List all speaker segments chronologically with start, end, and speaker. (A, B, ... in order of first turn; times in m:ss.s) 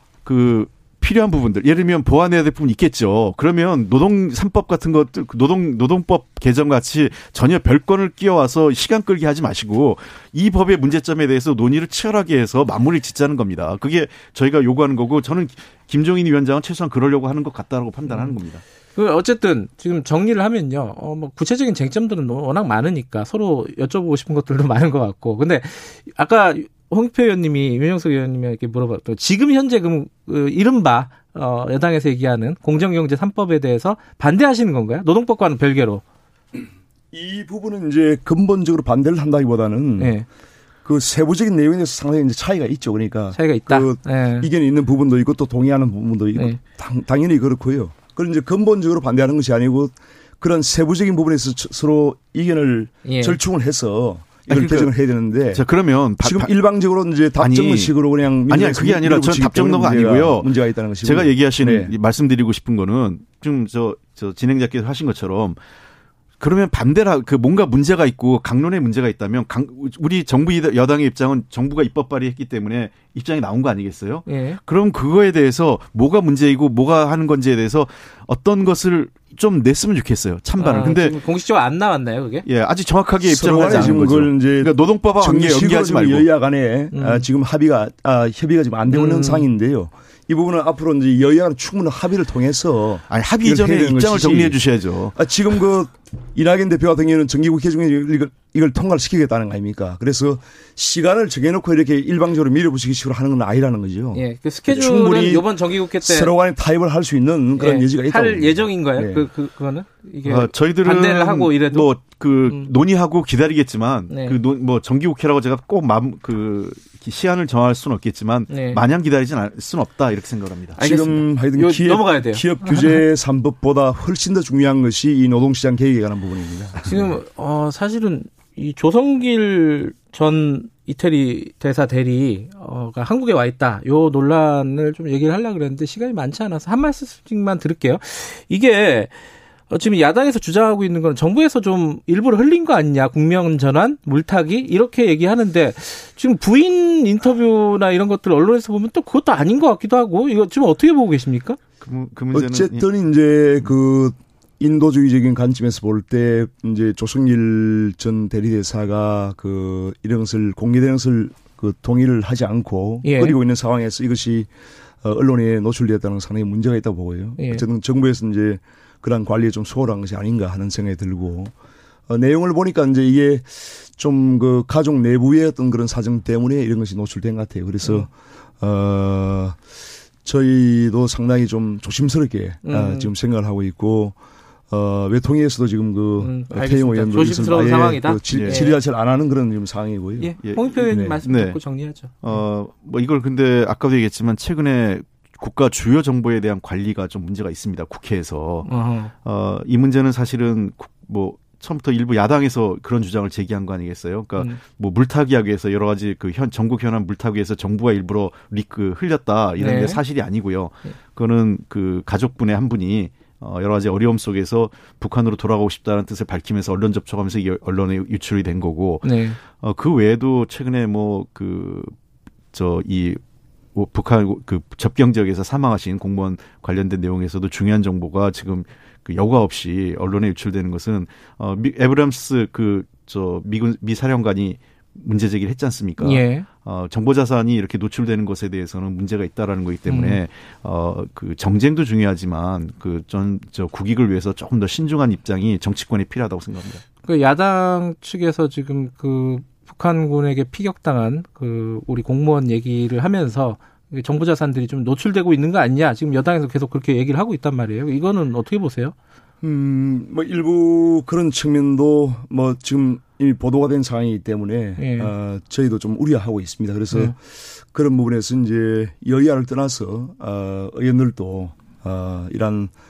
0:00.2-0:18.6 A
0:18.1-0:18.4 B
0:19.0-0:36.0 B
0:37.1-0:40.2 C
0:40.0-0:40.3 B
0:40.8-0:55.6 C
0:43.4-0:44.5 B
0:53.0-0:53.4 B
0:54.5-0:54.9 A
0:55.5-0:56.5 A
0:56.2-1:01.9 C
0:57.4-0:57.9 A
0:58.5-1:00.5 A
1:01.0-1:05.6 A
1:06.4-1:21.2 A
1:14.3-1:14.6 B
1:20.6-1:22.5 B
1:22.5-1:26.3 A
1:23.2-1:34.6 C
1:23.4-1:24.0 B
1:26.9-1:27.2 B
1:28.9-1:29.4 B
1:33.1-1:35.2 A
1:35.1-1:49.3 C
1:44.1-1:46.3 B
1:47.6-1:51.9 B
1:50.2-2:00.8 A
1:54.1-1:54.4 B
1:58.5-1:58.8 B
2:00.8-2:03.0 B
2:00.8-2:07.1 C
2:06.8-2:19.1 B
2:19.7-2:31.6 B
2:31.8-2:32.9 A
2:32.3-2:44.5 C
2:43.0-2:43.4 B
2:45.0-2:51.5 C
2:47.4-2:47.6 B
2:52.1-2:59.6 C
3:00.2-3:04.2 C
3:02.6-3:03.1 B
3:04.7-3:10.3 C
3:06.2-3:08.8 B
3:08.3-3:08.7 A
3:10.2-3:12.1 B
3:10.4-3:11.6 A
3:10.9-3:11.2 C
3:12.2-3:18.7 A
3:18.7-3:19.1 B
3:19.2-3:41.9 A
3:29.6-3:30.0 B
3:39.0-3:39.4 B
3:42.5-3:43.2 A
3:43.8-4:06.8 A
3:56.0-3:56.5 B
3:59.9-4:00.2 B
4:07.0-4:18.9 B
4:19.4-4:27.2 C
4:24.8-4:25.1 B
4:27.7-4:32.7 C